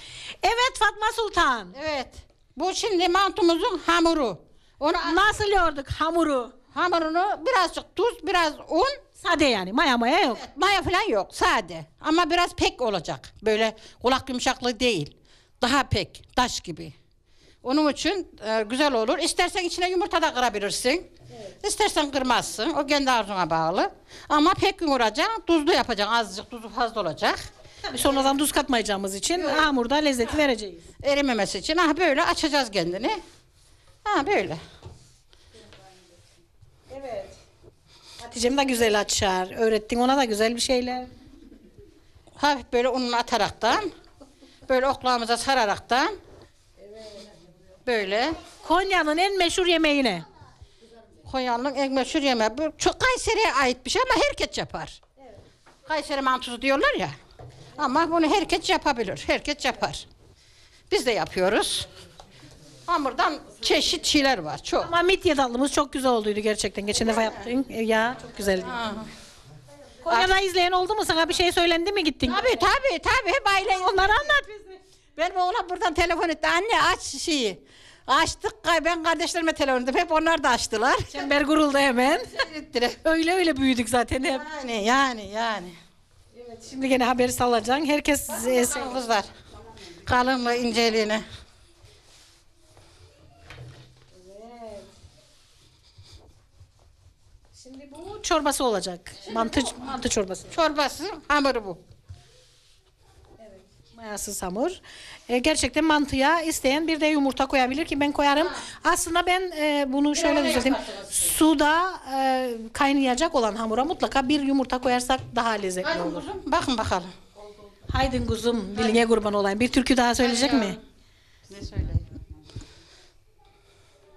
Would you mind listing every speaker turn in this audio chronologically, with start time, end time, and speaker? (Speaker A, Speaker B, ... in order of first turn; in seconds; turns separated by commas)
Speaker A: 0.4-1.8, Speaker B: 1.7-5.4, Speaker A: 5.0-6.5, Speaker B: 6.7-9.0, Speaker A: 9.2-10.4, Speaker B: 10.4-16.9, Speaker B: 17.6-21.1, Speaker B: 21.6-27.5, Speaker A: 27.8-30.9, Speaker B: 29.3-29.7, Speaker B: 31.0-33.2, Speaker B: 34.0-34.6, Speaker A: 36.9-37.4, Speaker A: 38.2-41.1, Speaker B: 42.4-43.9, Speaker B: 44.7-46.2, Speaker A: 46.8-47.2, Speaker B: 47.9-48.4, Speaker A: 48.6-50.2, Speaker B: 51.3-55.0, Speaker B: 55.9-57.2, Speaker B: 57.8-60.1, Speaker B: 60.9-61.9, Speaker B: 62.9-64.9, Speaker A: 64.8-68.7, Speaker B: 68.7-69.1, Speaker A: 70.0-72.7, Speaker B: 72.3-74.4, Speaker A: 73.7-74.6, Speaker B: 75.2-81.3, Speaker A: 81.1-82.4, Speaker B: 82.3-83.0, Speaker A: 83.0-84.5, Speaker B: 84.2-85.8, Speaker A: 86.4-89.0, Speaker B: 88.3-89.3, Speaker B: 90.1-91.2, Speaker A: 94.1-94.9, Speaker A: 97.6-100.5, Speaker B: 100.5-101.8, Speaker A: 103.4-116.2, Speaker B: 110.2-111.3, Speaker B: 115.8-117.1, Speaker A: 117.9-120.8, Speaker B: 120.2-120.8, Speaker B: 121.5-122.1